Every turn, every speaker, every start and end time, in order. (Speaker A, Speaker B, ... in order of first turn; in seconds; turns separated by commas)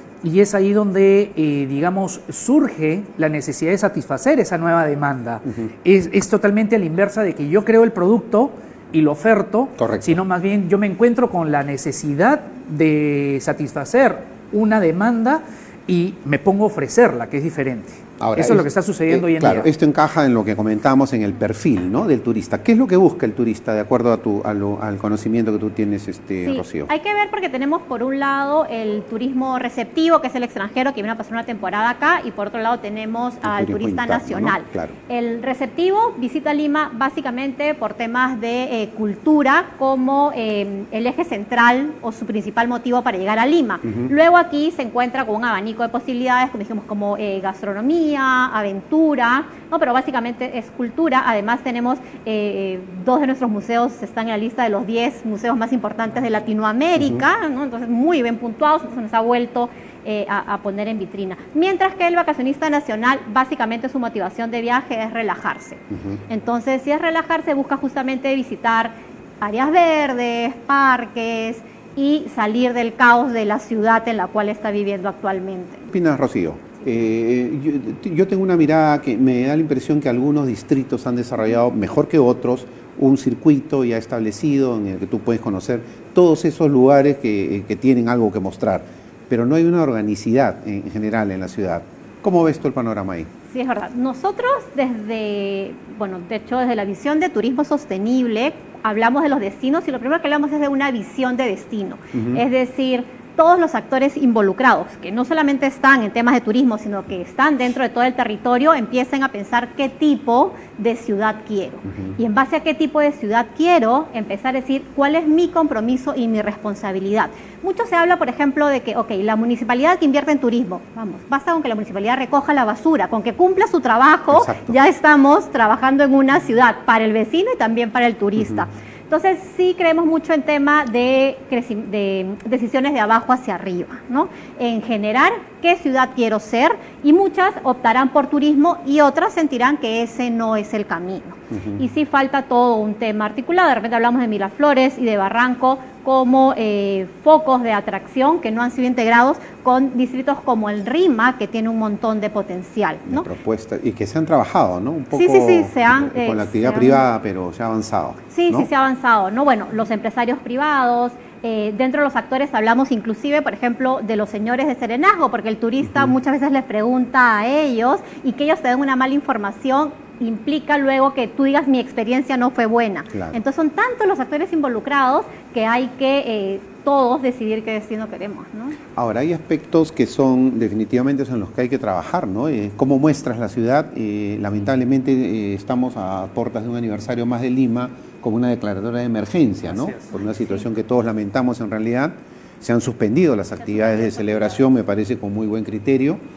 Speaker A: 0.2-19.7, Speaker B: 9.8-10.2, Speaker B: 18.2-26.9, Speaker C: 26.4-75.9, Speaker B: 33.4-34.9, Speaker B: 43.8-44.1, Speaker B: 65.9-66.2, Speaker B: 75.9-93.3, Speaker C: 93.5-153.3, Speaker B: 102.1-102.4, Speaker B: 111.9-112.2, Speaker B: 124.3-124.8, Speaker B: 141.5-141.8, Speaker B: 153.1-158.7, Speaker C: 155.1-157.1, Speaker C: 158.3-178.8, Speaker B: 165.8-166.1, Speaker B: 173.1-173.4, Speaker B: 179.0-196.2, Speaker A: 189.7-190.6, Speaker C: 193.6-194.6